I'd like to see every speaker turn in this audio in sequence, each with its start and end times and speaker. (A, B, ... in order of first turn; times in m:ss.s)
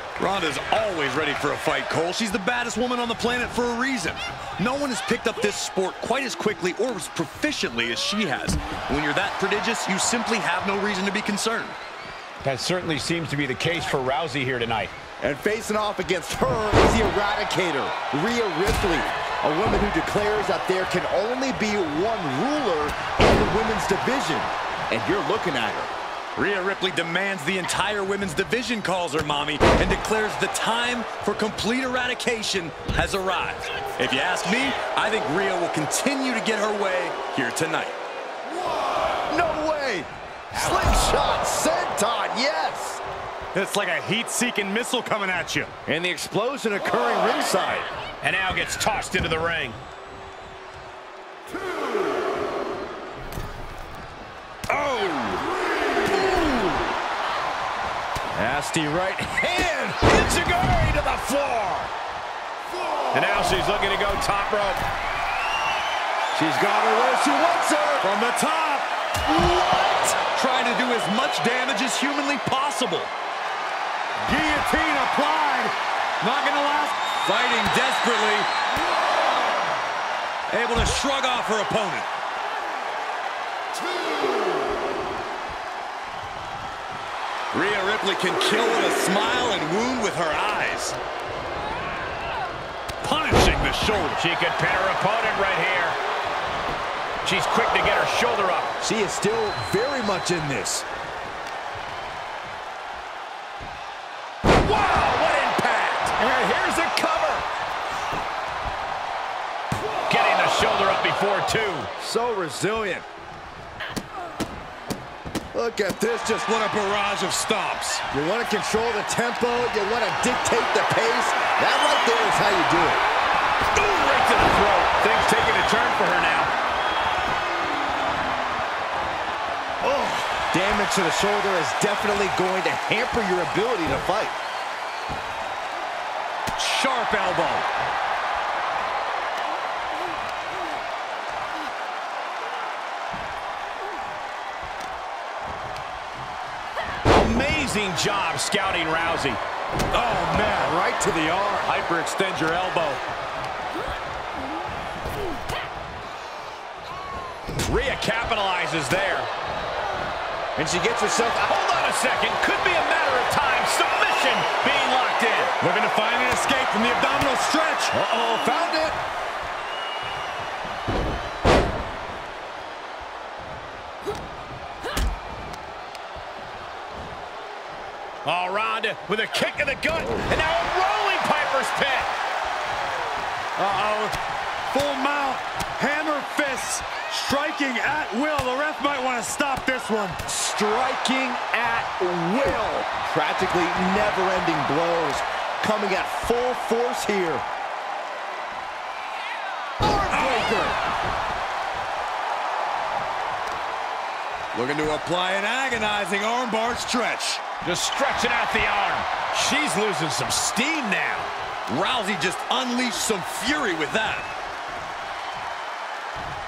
0:00.2-0:11.8 A
0:12.4-0:14.9 B
0:15.2-0:25.9 C
0:26.4-0:38.0 A
0:39.3-0:43.0 C
0:43.5-0:45.7 A
0:45.8-0:47.9 C
0:48.2-0:49.8 B
0:54.8-0:55.4 C
0:56.1-0:56.5 C
0:58.3-1:01.7 C
1:00.5-1:01.8 B
1:03.1-1:04.8 B
1:06.3-1:08.0 C
1:08.0-1:13.1 A
1:14.2-1:18.5 A
1:20.5-1:22.1 A
1:27.5-1:31.0 A
1:33.0-1:34.2 A
1:34.2-1:36.0 B
1:37.2-1:38.7 B
1:38.8-1:40.8 C
1:44.7-1:46.0 C
1:46.0-1:47.4 B
1:50.1-1:51.9 B
1:52.0-1:53.0 C
1:55.5-1:56.5 C
1:56.3-1:58.1 A
1:58.1-2:03.0 C
2:03.7-2:06.5 B
2:09.9-2:10.2 A
2:10.4-2:14.4 C
2:16.6-2:17.7 A
2:27.0-2:29.4 B
2:29.9-2:30.8 A
2:30.5-2:31.7 C
2:31.6-2:33.0 A
2:37.6-2:39.3 B
2:40.6-2:41.5 C
2:41.5-2:45.5 B
2:45.6-2:47.9 A
2:47.9-2:49.0 C
2:58.2-3:02.1 B
3:03.6-3:04.1 A
3:04.7-3:10.2 A
3:10.2-3:17.4 C
3:19.8-3:20.8 C
3:20.1-3:20.5 A
3:24.5-3:27.4 A
3:27.6-3:31.3 B
3:31.7-3:34.3 A